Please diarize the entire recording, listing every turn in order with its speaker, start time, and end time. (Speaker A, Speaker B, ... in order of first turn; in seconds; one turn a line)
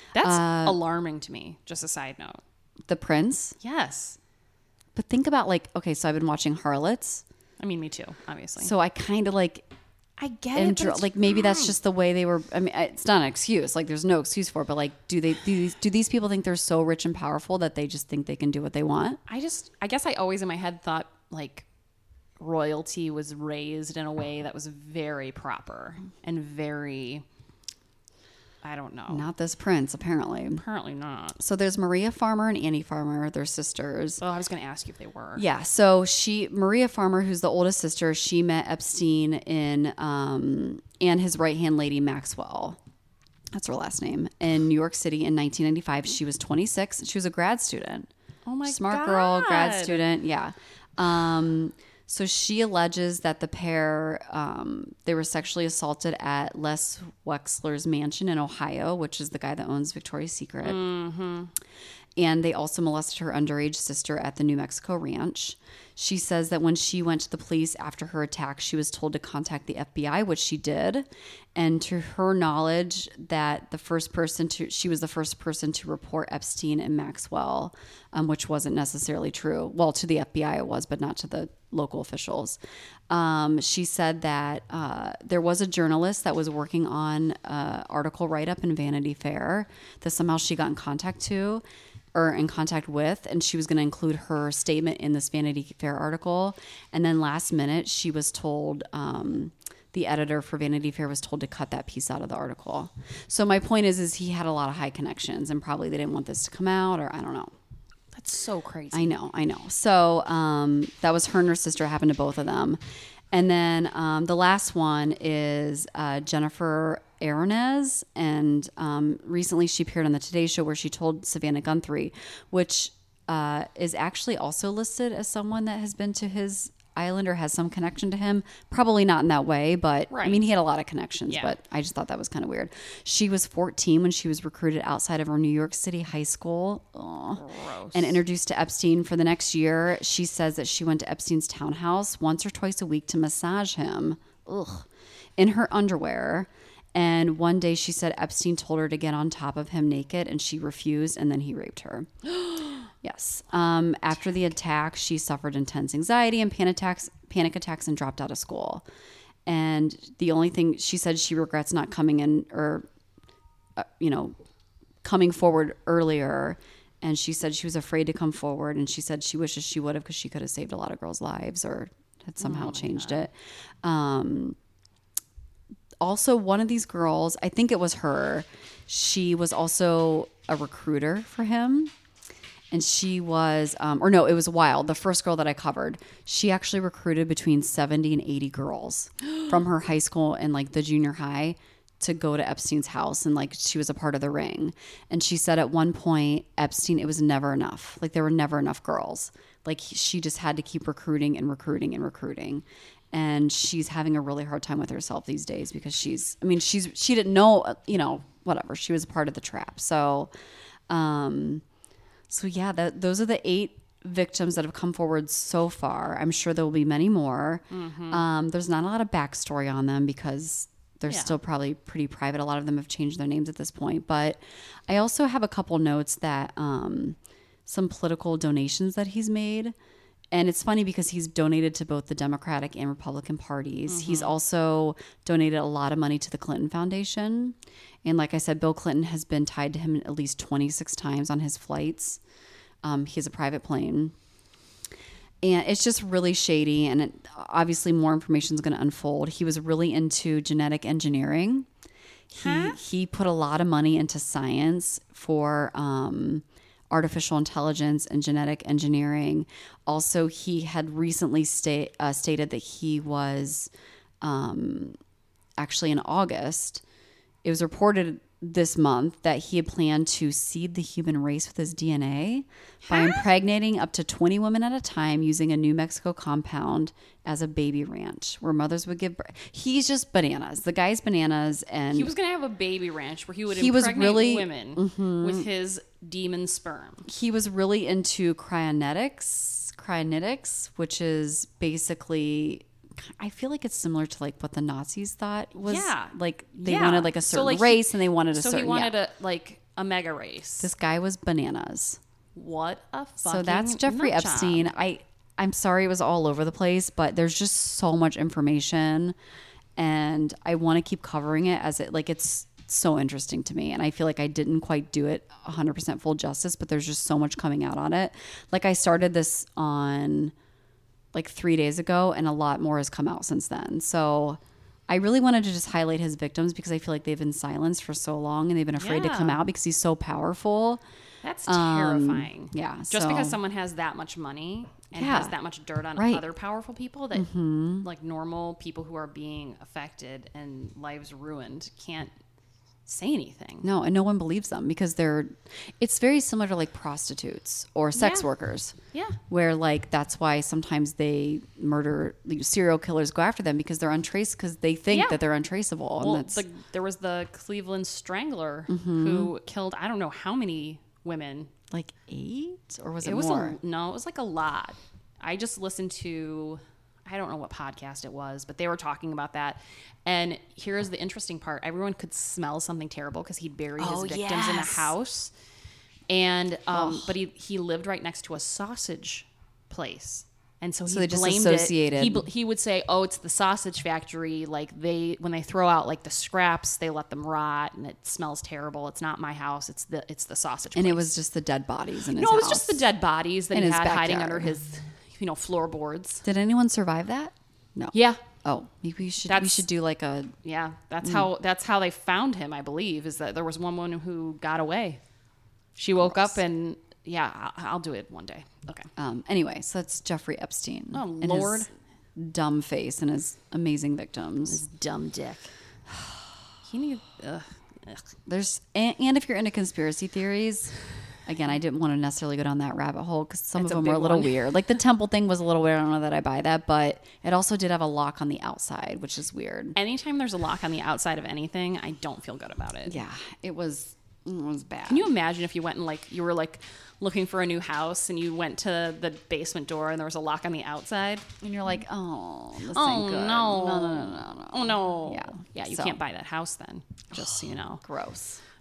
Speaker A: 0.1-2.4
Speaker B: 0.2-0.8
Speaker B: 2.9-3.6
Speaker A: 3.6-4.2
Speaker B: 5.0-7.2
Speaker A: 7.6-8.7
Speaker B: 8.6-9.7
Speaker A: 10.2-11.7
Speaker B: 10.5-19.2
Speaker A: 19.3-21.7
Speaker A: 22.4-27.2
Speaker A: 28.6-29.3
Speaker B: 29.1-30.6
Speaker A: 30.5-31.4
Speaker B: 31.4-34.2
Speaker A: 34.2-35.5
Speaker B: 35.4-42.8
Speaker B: 43.5-48.1
Speaker A: 48.5-50.0
Speaker B: 48.6-60.8
Speaker A: 60.6-61.5
Speaker B: 62.2-82.6
Speaker B: 83.1-107.5
Speaker A: 108.1-109.1
Speaker B: 108.9-112.8
Speaker B: 113.3-137.4
Speaker A: 130.1-130.4
Speaker A: 137.4-138.2
Speaker B: 137.9-158.8
Speaker B: 159.5-162.9
Speaker B: 163.8-164.4
Speaker B: 165.0-173.3
Speaker A: 172.4-173.2
Speaker B: 173.8-174.6
Speaker B: 176.0-181.9
Speaker B: 182.7-210.3
Speaker B: 210.9-211.6
Speaker B: 212.3-229.8
Speaker A: 217.7-218.2
Speaker A: 221.1-221.3
Speaker B: 230.3-242.2
Speaker A: 233.9-234.3
Speaker B: 242.8-244.1
Speaker B: 245.4-251.7
Speaker B: 252.3-265.0
Speaker A: 252.3-252.8
Speaker B: 265.6-266.8
Speaker B: 267.4-282.1
Speaker A: 272.9-273.2
Speaker A: 281.9-287.1
Speaker B: 283.5-285.5
Speaker B: 287.1-298.9
Speaker A: 295.6-300.7
Speaker B: 300.6-302.0
Speaker A: 302.4-304.7
Speaker B: 303.2-309.2
Speaker B: 309.8-320.3
Speaker B: 321.1-330.8
Speaker A: 328.8-329.4
Speaker A: 331.2-337.3
Speaker B: 331.5-333.4
Speaker B: 334.9-335.3
Speaker B: 336.0-336.2
Speaker B: 337.1-337.9
Speaker A: 337.8-342.1
Speaker A: 342.9-343.7
Speaker B: 343.6-348.8
Speaker A: 347.9-348.3
Speaker B: 349.3-356.4
Speaker A: 354.9-355.2
Speaker A: 356.0-361.5
Speaker B: 358.7-359.3
Speaker B: 361.7-363.6
Speaker A: 363.0-375.3
Speaker B: 373.8-374.9
Speaker A: 376.1-391.1
Speaker B: 376.7-377.1
Speaker B: 380.9-382.2
Speaker B: 390.8-392.8
Speaker A: 392.2-396.2
Speaker B: 393.5-394.5
Speaker B: 396.2-400.3
Speaker A: 397.9-398.2
Speaker A: 399.3-399.6
Speaker A: 400.4-405.0
Speaker A: 405.8-408.9
Speaker B: 406.0-406.4
Speaker B: 409.0-414.6
Speaker A: 410.9-411.7
Speaker A: 414.5-415.5
Speaker A: 416.6-418.1
Speaker B: 418.3-420.7
Speaker B: 421.3-429.8
Speaker A: 423.6-424.4
Speaker A: 429.8-433.0
Speaker B: 432.9-435.1
Speaker A: 434.9-441.3
Speaker B: 441.4-446.0
Speaker A: 442.7-447.8
Speaker B: 447.1-448.4